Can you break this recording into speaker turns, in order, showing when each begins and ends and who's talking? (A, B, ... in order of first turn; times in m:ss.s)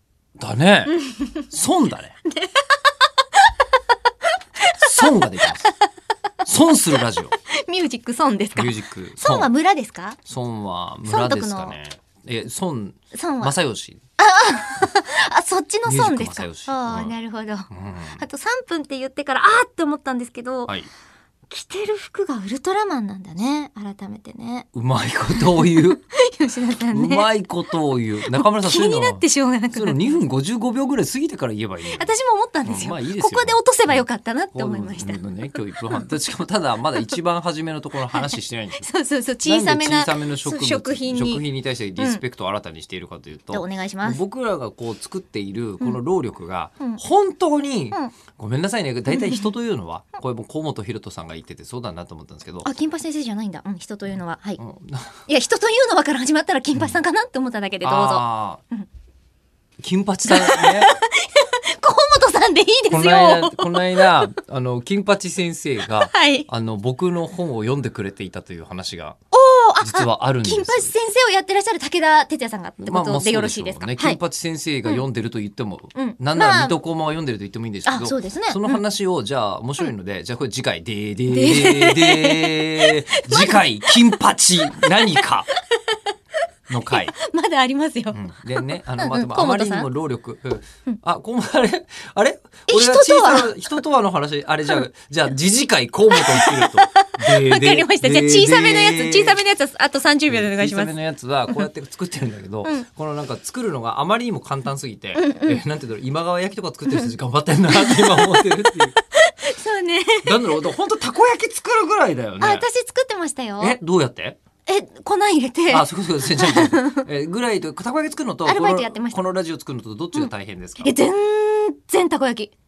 0:00.4-0:01.0 A
0:00.9-0:01.5 B
0:01.5-0:02.2 A
0:02.3-0:03.5 B
0:04.6-0:05.7 B
0:04.8-0:05.7 A
0:06.4-0:07.4 A
0:07.4-0:10.2 B
0:08.6-0:09.5 A
0:10.2-0:14.0 A
0:11.1-0:11.8 B
0:13.1-0:13.5 B
0:14.2-0:20.7 B
0:15.9-0:17.1 A
0:17.7-0:18.2 A
0:21.5-0:24.7 B
0:24.7-0:26.0 A
0:25.3-0:27.3 B
0:26.9-0:38.9 A
0:28.2-0:30.2 B
0:31.9-0:35.4 B
0:38.1-0:41.4 B
0:39.4-0:52.7 A
0:42.0-0:42.2 B
0:43.5-0:44.2 B
0:49.1-0:49.4 B
0:52.6-0:54.6 B
0:54.6-0:55.2 A
0:55.3-0:58.9 B
0:57.8-0:58.6 A
0:59.8-1:00.9 A
1:00.2-1:04.3 B
1:02.9-1:09.2 A
1:05.8-1:06.5 B
1:09.3-1:14.2 B
1:09.8-1:10.9 A
1:12.8-1:25.5 A
1:16.0-1:16.8 B
1:17.9-1:18.8 B
1:21.3-1:26.0 B
1:26.7-1:27.2 A
1:26.9-1:29.9 B
1:28.1-1:39.4 A
1:32.7-1:33.6 B
1:36.1-1:40.9 B
1:40.3-1:49.0 A
1:45.2-1:45.6 B
1:47.7-1:48.5 B
1:49.1-1:50.6 B
1:50.2-1:52.6 A
1:52.4-1:53.8 B
1:53.6-1:54.4 A
1:54.7-1:57.1 B
1:55.7-2:01.0 A
1:58.5-1:59.2 B
2:00.1-2:02.5 B